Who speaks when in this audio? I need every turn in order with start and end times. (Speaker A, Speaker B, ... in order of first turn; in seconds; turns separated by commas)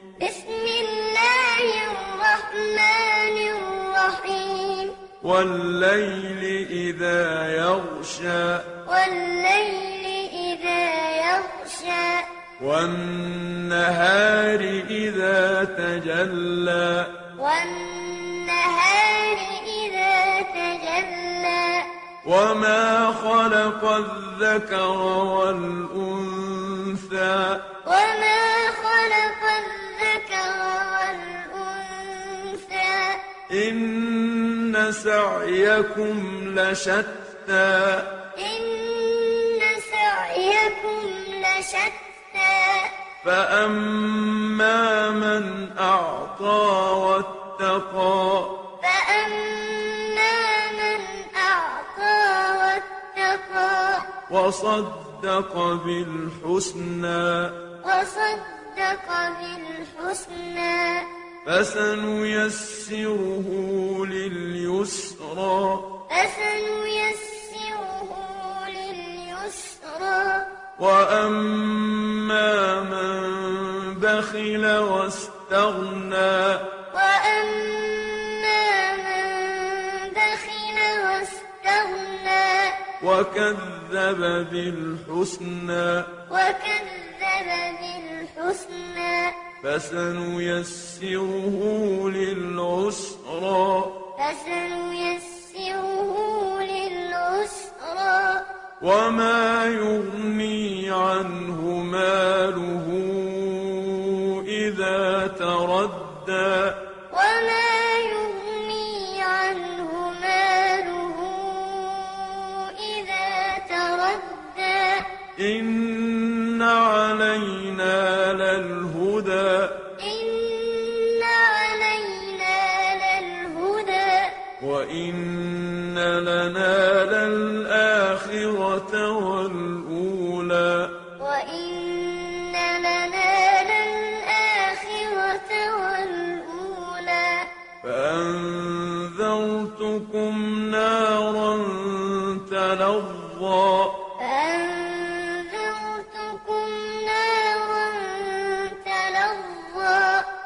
Speaker A: 0.2-5.0, Speaker B: 5.2-8.8, Speaker A: 8.8-12.3, Speaker B: 12.6-17.2, Speaker A: 17.4-21.9, Speaker B: 22.2-27.7, Speaker A: 27.9-33.2, Speaker B: 33.5-38.1, Speaker A: 38.4-42.9, Speaker B: 43.2-48.6, Speaker A: 48.8-54.1, Speaker B: 54.3-57.6, Speaker A: 57.8-61.1, Speaker B: 61.5-65.9, Speaker A: 66.1-70.5, Speaker B: 70.8-76.7, Speaker A: 76.9-82.8, Speaker B: 83.0-86.2, Speaker A: 86.3-89.4, Speaker B: 89.6-94.0, Speaker A: 94.2-98.5, Speaker B: 98.8-106.8, Speaker A: 107.1-115.1, Speaker B: 115.4-119.9, Speaker A: 120.0-124.4, Speaker B: 124.6-131.0, Speaker A: 131.2-137.5, Speaker B: 137.8-144.1, Speaker A: 144.2-150.3